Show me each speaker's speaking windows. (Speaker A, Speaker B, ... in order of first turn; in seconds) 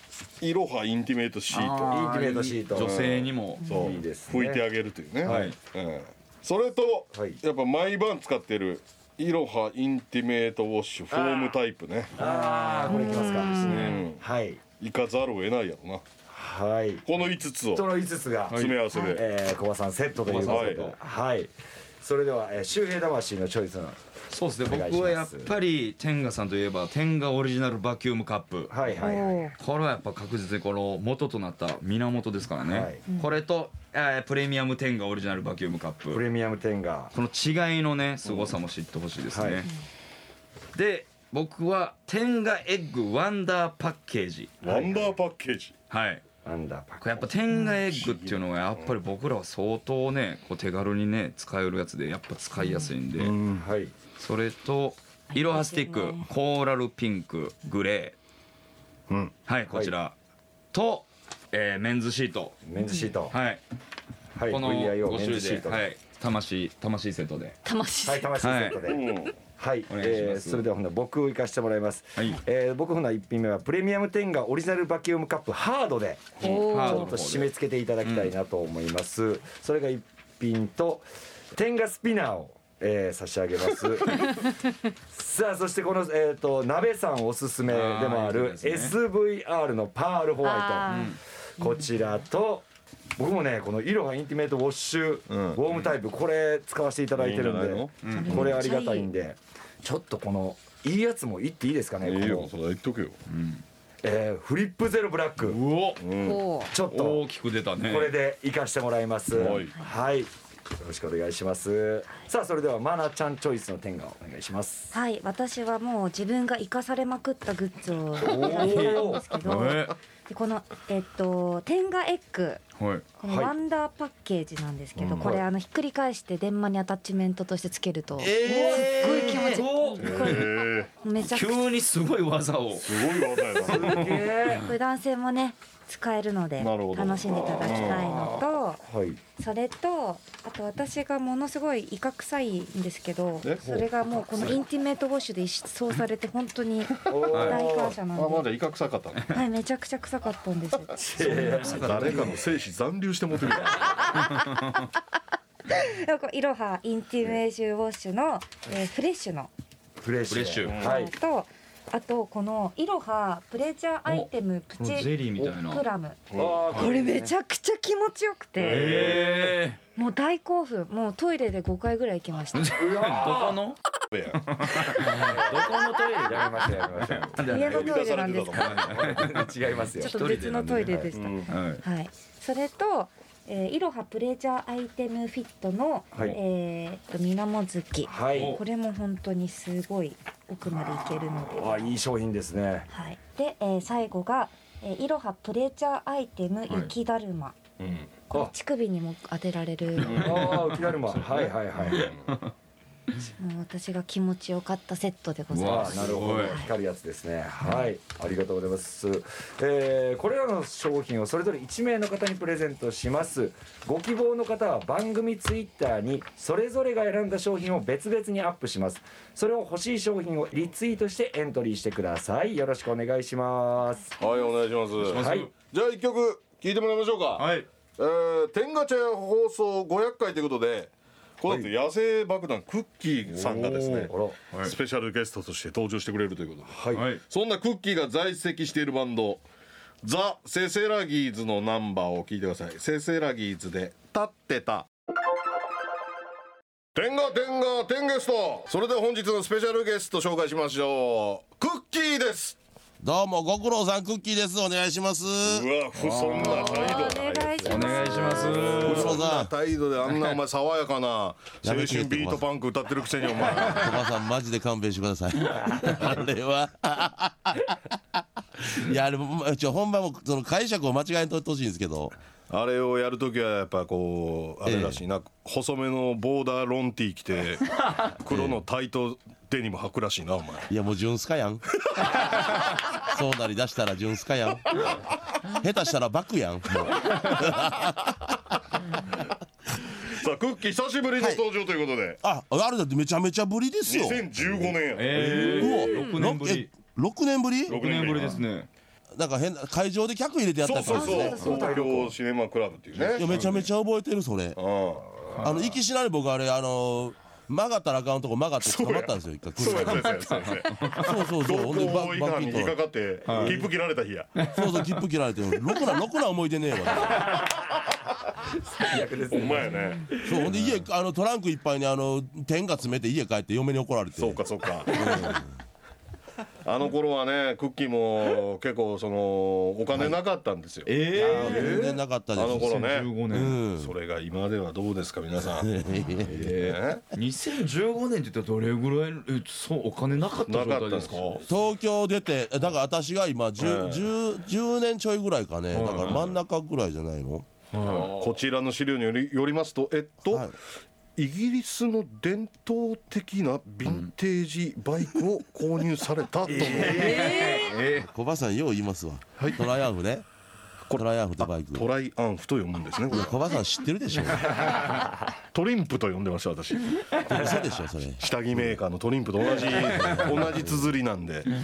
Speaker A: 0.4-2.0, 2.8-12.2, 13.6-14.2, 14.8-16.1, 17.1-17.9, 18.5-19.3, 20.4-20.9, 38.2-38.6, 44.6-45.7, 47.8-48.9, 53.2-53.6, 59.1-59.3, 68.8-69.3, 95.3-95.6, 97.2-98.6, 102.0-103.2, 106.0-106.4, 109.3-109.8, 125.0-125.4, 130.0-130.9, 132.8-134.0, 136.6-138.2, 148.1-149.3, 151.7-154.2, 166.3-166.7, 168.6-169.6, 174.1-174.5, 177.5-179.1, 181.2-181.5, 200.1-200.4, 201.9-202.3, 224.2-239.4, 240.0-244.9, 246.9-252.6, 255.4-257.7, 258.6-264.0, 272.5-280.7, 290.0-292.2, 293.9-295.8, 297.7-298.4, 300.6-303.7, 304.6-305.2, 308.6-314.3, 319.3-320.1, 324.2-325.4, 326.6-333.1, 333.8-335.7, 336.3-337.0, 340.5-341.4, 343.6-344.1, 345.9-346.3, 347.9-350.5, 351.2-357.4, 359.4-359.6, 360.9-363.4, 365.5-367.5, 368.2-371.5
Speaker B: 1.5-3.9, 5.2-5.5, 13.6-14.0, 18.5-18.8, 20.2-20.9, 24.3-28.8, 29.6-36.2, 37.1-39.7, 40.8-44.6, 45.9-46.2, 47.0-53.4, 54.2-58.2, 59.5-60.1, 60.7-62.6, 63.3-63.6, 64.5-67.6, 68.4-68.9, 69.9-70.7, 76.4-77.5, 78.0-78.3, 87.7-89.0, 90.9-91.2, 98.0-98.5, 103.3-103.6, 105.4-106.0, 106.9-108.2, 118.5-120.0, 122.8-123.1, 128.2-130.5, 131.2-133.1, 133.7-134.6, 147.3-147.7, 151.2-152.4, 160.3-160.8, 164.1-165.8, 168.6-169.8, 172.5-173.8, 174.4-181.8, 188.3-188.6, 200.0-202.5, 205.5-206.6, 225.0-225.5, 227.4-227.7, 236.9-237.2, 256.0-256.9, 257.6-259.2, 294.9-296.7, 297.7-298.7, 309.6-311.2, 313.3-313.6, 314.4-315.0, 330.9-331.8, 332.4-333.6, 336.3-341.5, 345.7-346.3, 347.7-348.1, 353.9-354.1, 356.5-358.1, 369.7-370.4
Speaker C: 1.9-3.1, 3.6-4.7, 5.2-5.5, 7.1-7.4, 11.1-11.6, 12.2-14.6, 16.3-17.1, 17.7-24.0, 24.6-25.5, 28.7-29.4, 32.6-33.0, 36.1-37.1, 39.3-39.7, 44.6-45.1, 46.5-47.3, 53.5-53.9, 59.7-59.9, 62.6-63.4, 64.3-65.9, 68.0-84.4, 85.1-92.7, 93.2-102.5, 104.0-105.6, 106.7-107.2, 107.8-114.9, 118.2-119.2, 123.2-123.5, 128.4-130.3, 133.6-134.7, 138.8-139.2, 143.6-143.9, 147.1-148.0, 151.0-152.4, 160.0-161.1, 166.3-167.3, 168.8-169.4, 172.7-173.6, 175.0-177.5, 178.7-180.2, 186.1-186.4, 188.0-188.6, 191.5-192.9, 200.1-202.2, 205.6-224.1, 225.1-225.5, 231.5-231.7, 233.3-234.4, 236.7-237.1, 256.1-258.9, 301.4-302.0, 318.7-320.3, 347.8-348.3, 356.5-357.4
Speaker D: 3.6-3.9, 12.9-14.0, 29.0-29.6, 52.6-52.9, 55.3-56.3, 62.8-63.1, 67.7-68.4, 76.4-77.1, 90.4-91.8, 98.1-99.1, 106.1-106.7, 114.9-122.6, 123.2-131.6, 134.5-138.8, 139.4-148.5, 149.3-151.5, 154.1-154.8, 155.7-159.5, 160.7-169.2, 170.0-172.8, 177.4-178.9, 180.0-191.8, 192.9-197.6, 198.3-200.6, 203.4-206.7, 256.3-258.8, 295.6-296.1, 300.8-302.1, 357.1-357.7
Speaker E: 253.0-255.7, 258.8-259.5, 261.6-262.4, 263.5-272.1, 274.6-275.0, 278.3-278.6, 280.7-281.6, 282.9-284.8, 285.5-288.4, 292.2-297.8, 299.1-301.9, 303.1-304.6, 305.4-310.2, 310.9-312.8, 313.4-313.6, 314.5-317.4, 320.2-325.5, 331.2-333.9, 335.4-336.5, 341.5-347.5, 358.0-360.2, 360.9-361.9, 363.1-364.8, 367.3-368.8, 369.9-370.9